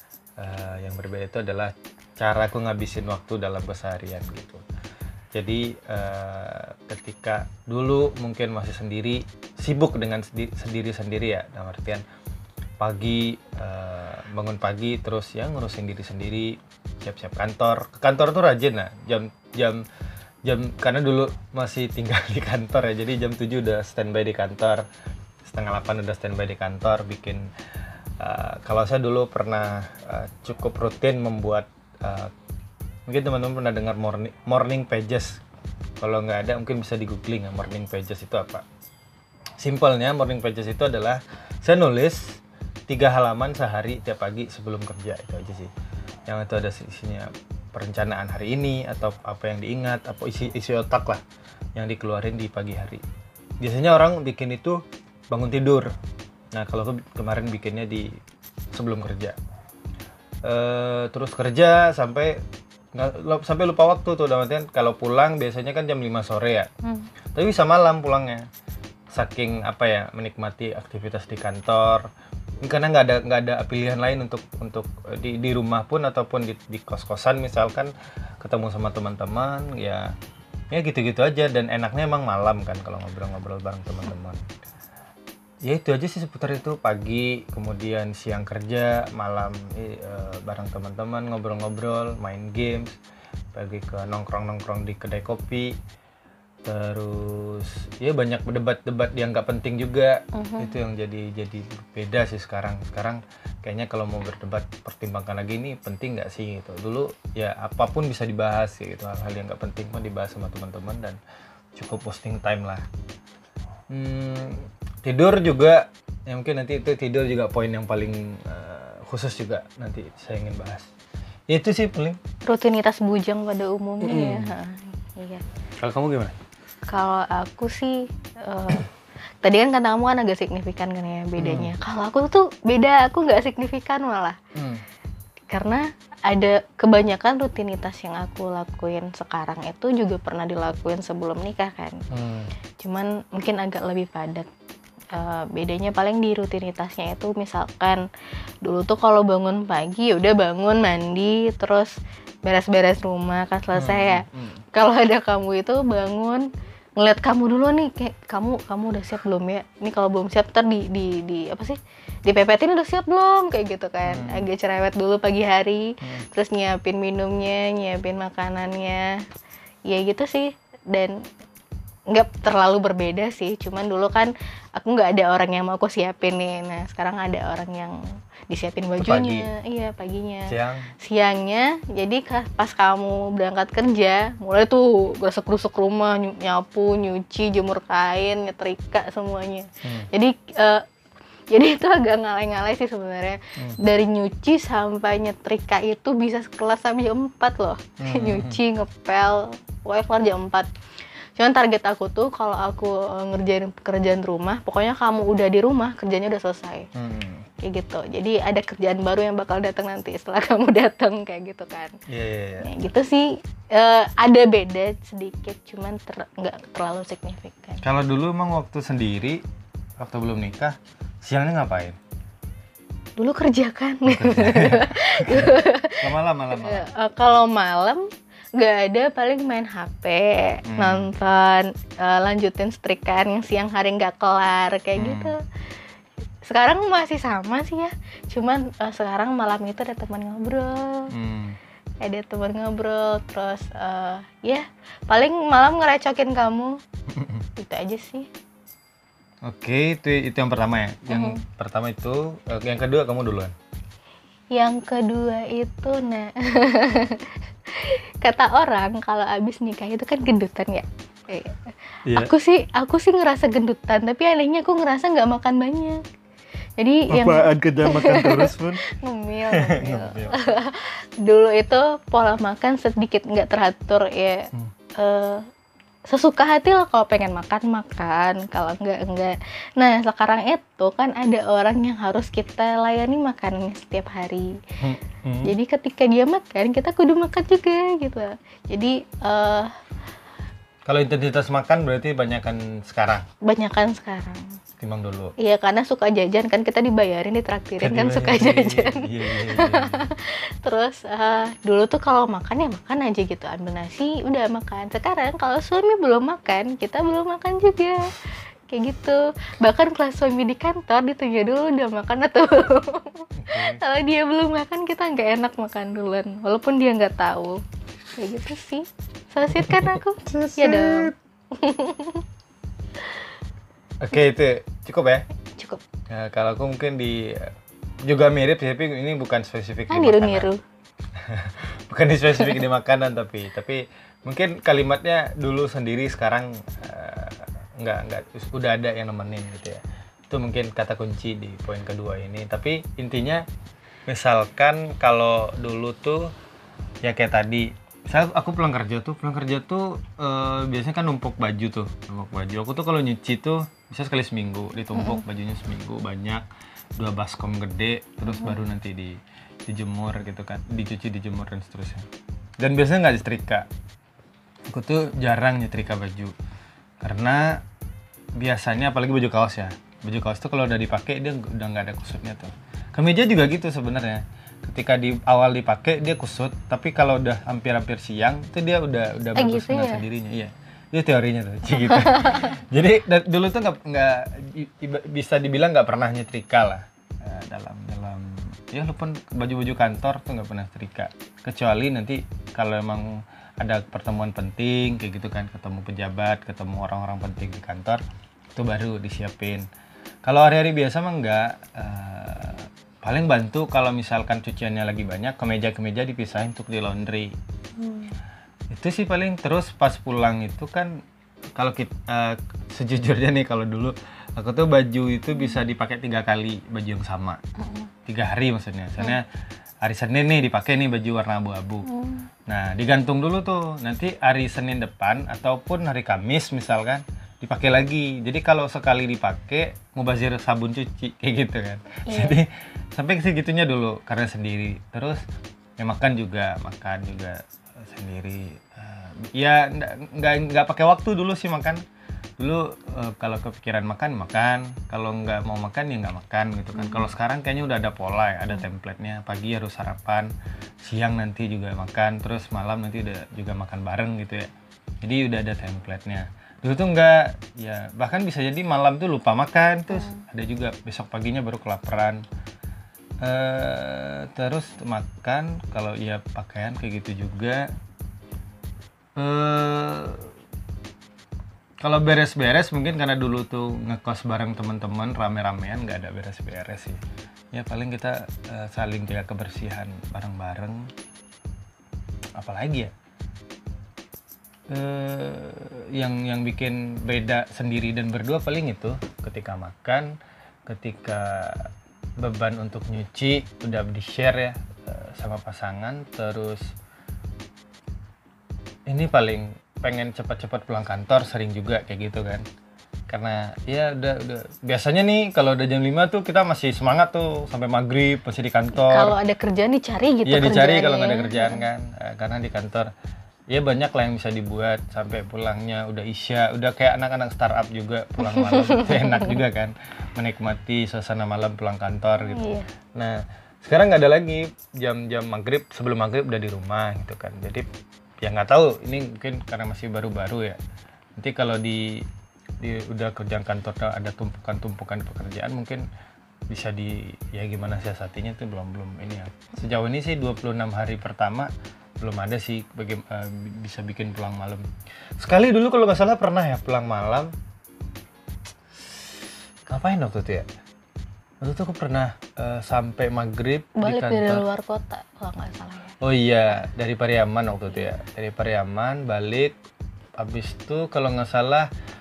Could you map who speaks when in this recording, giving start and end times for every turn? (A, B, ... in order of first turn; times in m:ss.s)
0:00.4-0:04.6 A
0:05.3-0:12.0 A
0:12.8-0:19.8 A
0:20.4-0:24.8 A
0:25.4-0:27.5 A
0:28.2-0:32.3 A
0:33.1-0:35.4 A
0:36.0-0:38.6 A
0:39.6-0:45.7 A
0:46.3-0:51.2 A
0:51.8-0:53.0 A
0:53.6-0:55.9 A
0:56.5-0:58.1 A
0:58.7-0:59.4 A
1:00.4-1:06.7 A
1:07.3-1:08.5 A
1:09.1-1:12.0 A
1:12.6-1:20.1 A
1:20.7-1:24.5 A
1:25.6-1:33.0 A
1:33.5-1:35.7 A
1:36.6-1:51.2 A
1:40.3-1:40.7 B
1:51.8-1:52.8 A
1:53.9-2:00.9 A
2:01.5-2:02.2 A
2:02.4-2:05.4 B
2:04.0-2:04.5 A
2:05.8-2:06.4 A
2:06.9-2:08.9 B
2:09.4-2:14.4 B
2:11.4-2:11.7 A
2:14.5-2:14.8 A
2:15.5-2:22.0 B
2:22.1-2:22.5 A
2:22.8-2:24.5 B
2:25.1-2:28.0 B
2:28.6-2:31.9 B
2:32.4-2:49.2 B
2:33.7-2:34.6 A
2:44.0-2:44.4 A
2:49.9-2:51.2 B
2:52.1-3:10.8 B
2:59.0-2:59.5 A
3:00.5-3:00.9 A
3:11.5-3:20.7 B
3:18.0-3:18.6 A
3:21.4-3:26.9 B
3:26.9-3:27.4 A
3:27.6-3:31.9 B
3:32.1-3:32.7 A
3:32.6-3:37.8 B
3:37.8-3:39.4 A
3:40.0-3:42.0 A
3:43.2-3:55.4 B
3:44.1-3:46.9 A
3:50.7-3:51.1 A
3:55.0-3:55.3 A
3:56.4-4:01.1 B
4:01.1-4:01.6 A
4:02.0-4:06.8 B
4:07.1-4:07.4 A
4:07.6-4:08.3 B
4:09.4-4:13.5 A
4:11.1-4:11.4 B
4:14.5-4:21.6 B
4:22.0-4:22.3 A
4:22.2-4:26.0 B
4:26.8-4:35.4 B
4:27.1-4:28.8 A
4:29.5-4:30.5 A
4:36.1-4:44.6 B
4:44.8-4:45.5 A
4:45.4-4:49.7 B
4:50.8-4:53.3 A
4:53.4-4:54.5 B
4:54.8-4:55.3 A
4:55.4-5:17.6 B
4:57.8-5:00.0 A
5:13.4-5:13.8 A
5:18.2-5:22.2 B
5:19.5-5:21.1 A
5:24.0-5:25.2 A
5:26.1-5:27.5 A
5:28.0-5:30.5 A
5:29.9-5:30.6 B
5:31.2-5:43.4 A
5:44.1-5:46.3 A
5:47.0-5:56.4 A
5:54.9-5:55.2 B
5:57.0-6:02.1 A
5:58.3-5:58.6 B
6:02.6-6:03.7 A
6:04.7-6:06.3 A
6:07.0-6:07.6 A
6:08.4-6:38.0 A
6:19.4-6:20.0 B
6:21.8-6:22.5 B
6:38.5-6:39.6 A
6:40.2-6:47.3 A
6:47.8-6:48.1 B
6:48.7-6:51.0 A
6:51.6-6:57.4 A
6:57.6-6:57.9 B
6:58.0-6:59.2 A
6:59.8-7:01.8 A
7:01.8-7:02.3 B
7:02.4-7:15.2 A
7:12.0-7:12.4 B
7:15.8-7:21.8 A
7:22.4-7:30.3 A
7:26.7-7:27.1 B
7:30.8-7:34.5 A
7:35.0-7:42.2 A
7:39.9-7:40.2 B
7:43.2-7:47.7 A
7:49.2-7:50.3 A
7:51.8-7:57.0 A
7:57.5-8:00.9 A
8:02.4-8:02.9 A
8:04.7-8:10.1 A
8:10.6-8:16.7 A
8:18.9-8:22.4 A
8:23.1-8:29.1 A
8:28.8-8:31.6 B
8:30.2-8:32.9 A
8:33.5-8:47.6 A
8:38.2-8:39.3 B
8:42.2-8:42.7 B
8:48.2-8:50.6 A
8:51.2-8:52.0 A
8:52.6-8:55.8 A
8:56.5-9:04.6 A
9:05.2-9:07.3 A
9:08.8-9:10.5 A
9:11.4-9:14.4 A
9:13.8-9:15.9 B
9:16.0-9:19.5 A
9:20.2-9:21.7 A